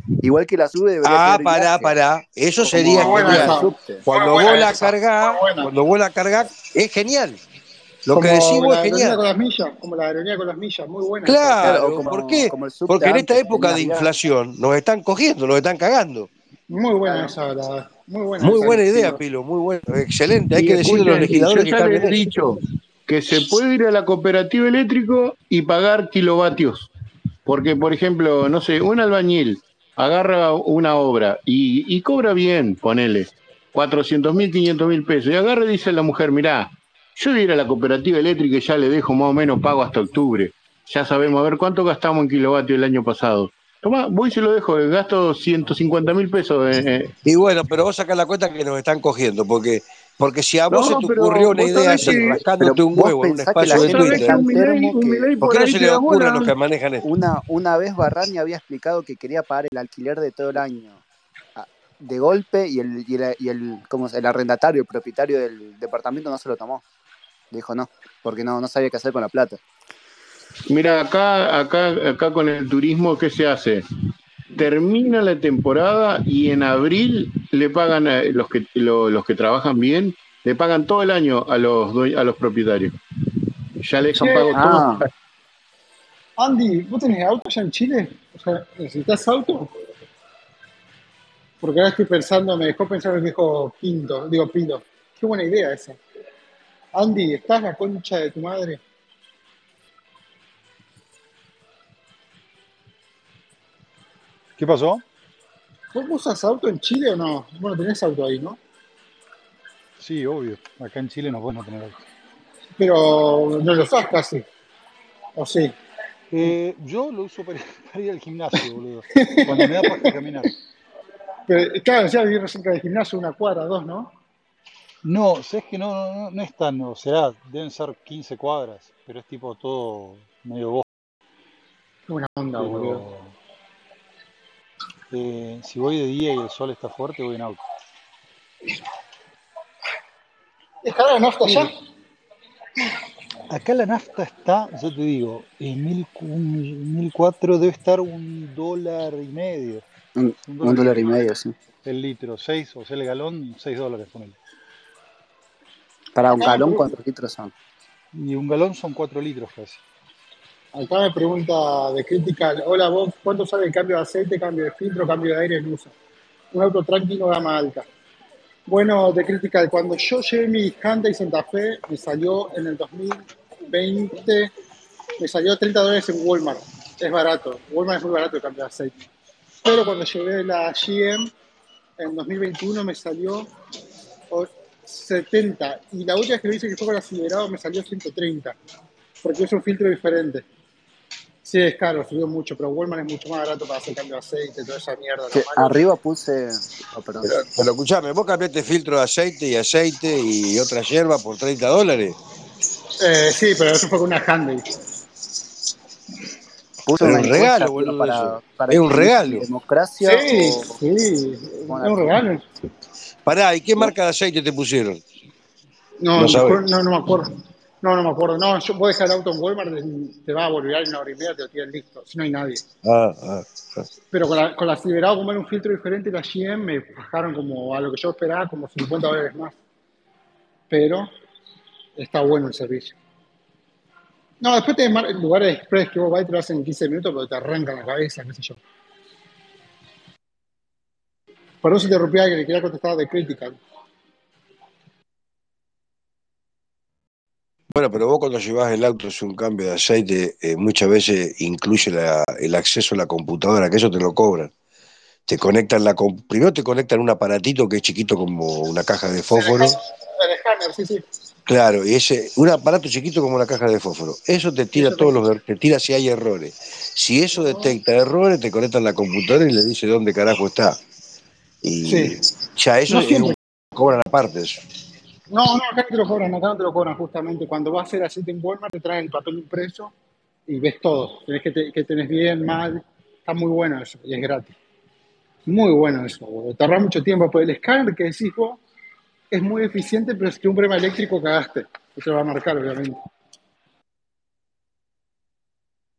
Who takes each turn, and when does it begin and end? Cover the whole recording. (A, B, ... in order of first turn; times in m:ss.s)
0:00.2-0:02.0 A
0:01.0-0:07.4 B
0:02.6-0:04.0 A
0:02.8-0:05.7 C
0:08.1-0:09.2 B
0:08.1-0:11.7 C
0:11.2-0:16.3 B
0:11.6-0:14.1 A
0:16.7-0:19.2 C
0:18.4-0:22.2 B
0:20.6-0:26.9 D
0:27.5-0:47.1 D
0:47.2-0:54.4 B
0:50.7-0:52.4 D
0:52.6-0:55.3 A
0:53.7-0:56.5 D
0:55.4-0:57.1 B
0:57.0-1:01.0 A
1:01.6-1:06.8 A
1:07.5-1:09.6 A
1:10.7-1:13.8 D
1:14.5-1:23.0 D
1:23.8-1:25.1 D
1:24.2-1:24.5 C
1:24.5-1:25.0 A
1:26.4-1:29.7 C
1:31.6-1:36.0 C
1:37.0-1:38.8 C
1:44.6-1:45.0 E
1:45.9-1:48.6 C
1:50.0-1:52.0 E
1:52.8-1:54.4 C
1:55.4-1:55.7 C
1:56.3-2:00.5 E
1:59.2-2:00.1 C
2:01.5-2:04.1 C
2:05.0-2:10.8 E
2:12.1-2:13.0 C
2:12.6-2:13.3 E
2:15.1-2:17.6 E
2:20.8-2:21.7 C
2:23.5-2:29.8 E
2:30.2-2:31.5 A
2:30.4-2:31.3 E
2:31.8-2:34.4 E
2:36.2-2:37.5 A
2:36.3-2:36.9 C
2:38.1-2:39.8 E
2:40.7-2:45.9 C
2:46.5-2:47.8 C
2:48.7-2:54.5 C
2:55.2-2:58.9 C
2:59.6-3:01.3 C
3:02.0-3:03.5 C
3:04.3-3:08.6 C
3:09.2-3:10.5 C
3:11.4-3:15.8 C
3:15.3-3:17.4 A
3:17.2-3:22.2 B
3:23.0-3:24.7 C
3:26.9-3:30.8 A
3:27.0-3:29.5 B
3:30.0-3:32.4 C
3:31.7-3:32.2 A
3:33.2-3:35.0 B
3:36.0-3:42.6 C
3:36.2-3:36.6 B
3:42.8-3:43.9 B
3:44.1-3:49.6 C
3:50.7-3:51.1 C
3:52.0-3:53.0 C
3:54.4-3:58.6 C
4:01.6-4:03.6 C
4:07.7-4:14.5 B
4:15.3-4:19.8 B
4:19.4-4:21.0 C
4:21.5-4:30.8 B
4:24.8-4:25.2 C
4:27.4-4:27.7 C
4:31.6-4:34.6 B
4:31.9-4:32.2 C
4:32.9-4:33.4 C
4:35.3-4:39.9 C
4:40.5-4:44.6 C
4:45.5-4:48.6 C
4:49.3-4:53.0 C